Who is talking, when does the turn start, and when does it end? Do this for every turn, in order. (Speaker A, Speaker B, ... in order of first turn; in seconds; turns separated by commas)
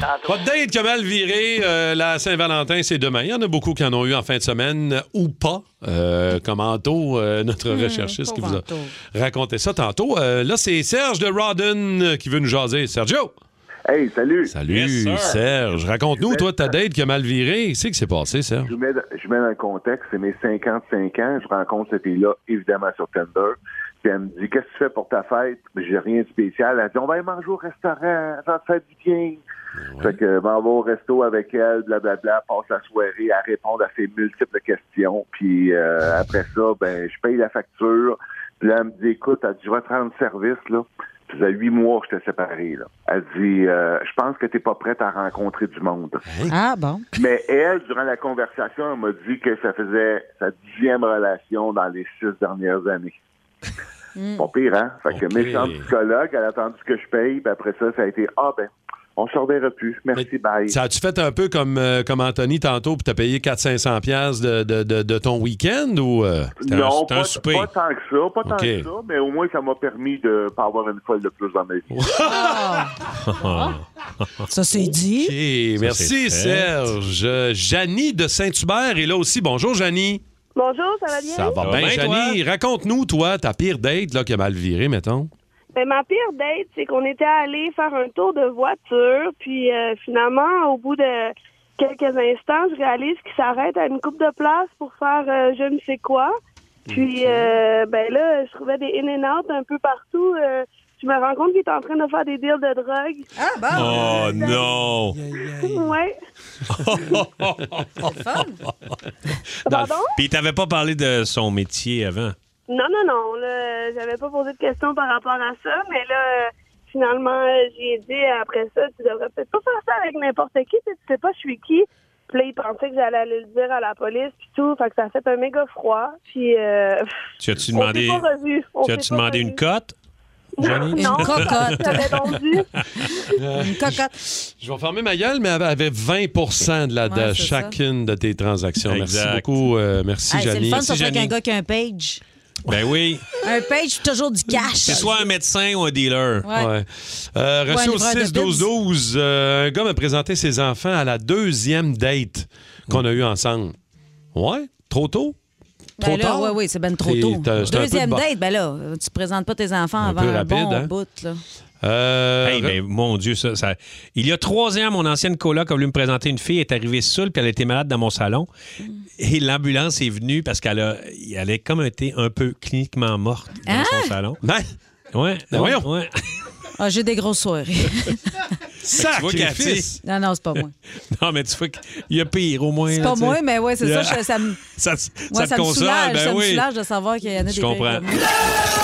Speaker A: 0.2-13.3, Speaker B: 7.7-8.9, Speaker C: 13.9-14.6, Speaker A: 14.5-18.7, Speaker D: 14.7-15.4, Speaker C: 16.2-16.5, Speaker C: 18.7-29.4, Speaker A: 29.8-30.2, Speaker C: 30.0-46.2, Speaker B: 46.5-47.0, Speaker C: 47.1-53.2, Speaker B: 54.2-54.5, Speaker C: 54.4-60.8, Speaker A: 55.1-55.9, Speaker A: 60.2-66.6, Speaker C: 66.6-72.1, Speaker D: 66.7-67.7, Speaker A: 68.4-68.9, Speaker A: 71.9-72.9, Speaker B: 72.2-72.9, Speaker D: 73.2-74.5, Speaker B: 74.5-75.3, Speaker A: 74.7-80.2, Speaker D: 75.8-76.7, Speaker E: 80.5-81.6, Speaker A: 81.3-85.3, Speaker D: 81.6-82.4, Speaker E: 85.7-96.3, Speaker E: 96.9-103.3, Speaker B: 103.4-104.7, Speaker D: 103.7-105.2, Speaker A: 103.8-105.9, Speaker E: 105.6-106.2, Speaker D: 106.7-108.1, Speaker A: 107.0-107.9, Speaker B: 108.0-108.6, Speaker A: 109.7-109.9, Speaker E: 109.7-110.1, Speaker D: 110.2-112.3, Speaker E: 112.7-127.1, Speaker D: 127.4-128.3, Speaker E: 127.7-129.6, Speaker D: 128.8-129.9, Speaker E: 130.6-132.7, Speaker D: 130.6-132.8, Speaker B: 130.9-132.3, Speaker A: 133.3-141.3, Speaker B: 133.6-134.1, Speaker B: 137.1-137.8, Speaker D: 138.9-139.5, Speaker B: 140.3-142.2, Speaker D: 142.7-143.2, Speaker B: 143.4-145.2, Speaker D: 144.9-146.4, Speaker A: 146.5-153.8, Speaker B: 147.7-148.7, Speaker A: 154.3-155.4, Speaker A: 156.0-158.2, Speaker B: 156.0-161.4, Speaker A: 160.0-160.9, Speaker A: 161.8-162.8, Speaker D: 162.4-168.5, Speaker D: 169.2-174.4, Speaker B: 173.7-174.1, Speaker A: 174.4-174.7, Speaker D: 175.1-176.4, Speaker A: 175.5-175.9, Speaker B: 176.8-178.5, Speaker A: 178.8-180.0, Speaker D: 178.9-180.0, Speaker B: 180.0-180.7, Speaker D: 181.1-186.7, Speaker B: 182.9-184.6, Speaker B: 185.3-188.3, Speaker D: 187.4-188.1